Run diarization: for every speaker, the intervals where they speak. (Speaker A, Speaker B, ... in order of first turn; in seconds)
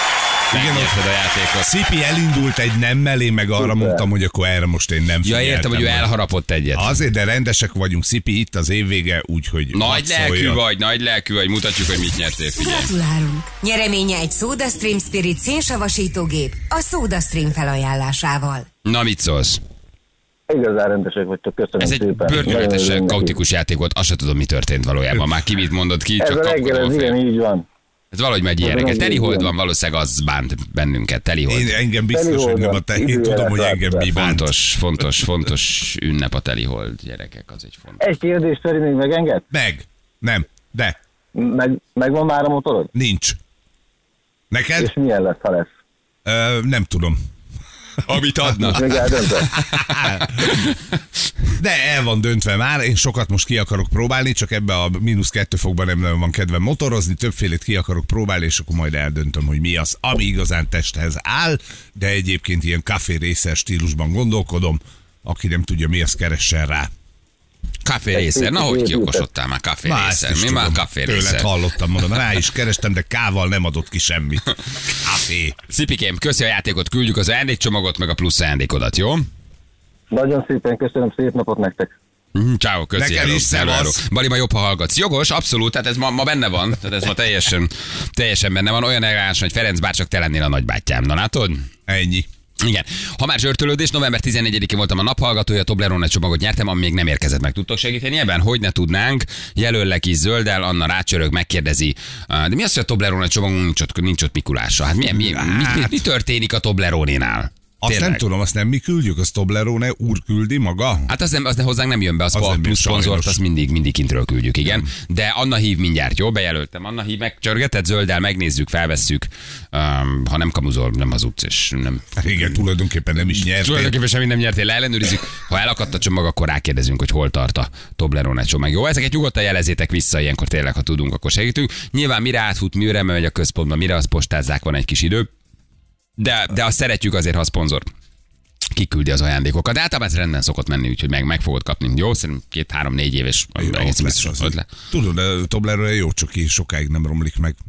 Speaker A: 0.5-0.9, 1.6-6.1, 6.8-10.6, 31.5-34.5, 39.5-41.0, 42.9-43.4, 44.5-44.9, 46.2-47.2, 49.5-50.5, 51.6-66.9, 69.8-75.6, 83.0-84.0, 91.9-92.3, 105.1-106.0, 107.8-111.1, 112.3-113.4, 122.2-124.0, 143.6-147.6
Speaker B: 0.5-1.7, 5.2-6.9, 9.7-12.9, 18.9-19.6, 21.8-27.1, 28.1-31.8, 34.1-38.0, 48.0-50.8, 67.8-71.5, 75.7-79.3, 82.3-91.7, 92.6-108.2, 111.1-122.4, 123.2-135.3, 136.2-137.9, 138.8-144.7
Speaker C: 3.6-4.1, 20.5-23.3, 26.2-27.6, 28.6-29.5, 32.1-34.1, 38.0-39.4, 41.4-42.9, 44.8-45.7, 48.7-49.6, 68.1-69.2, 80.1-81.9
Speaker D: 12.6-18.7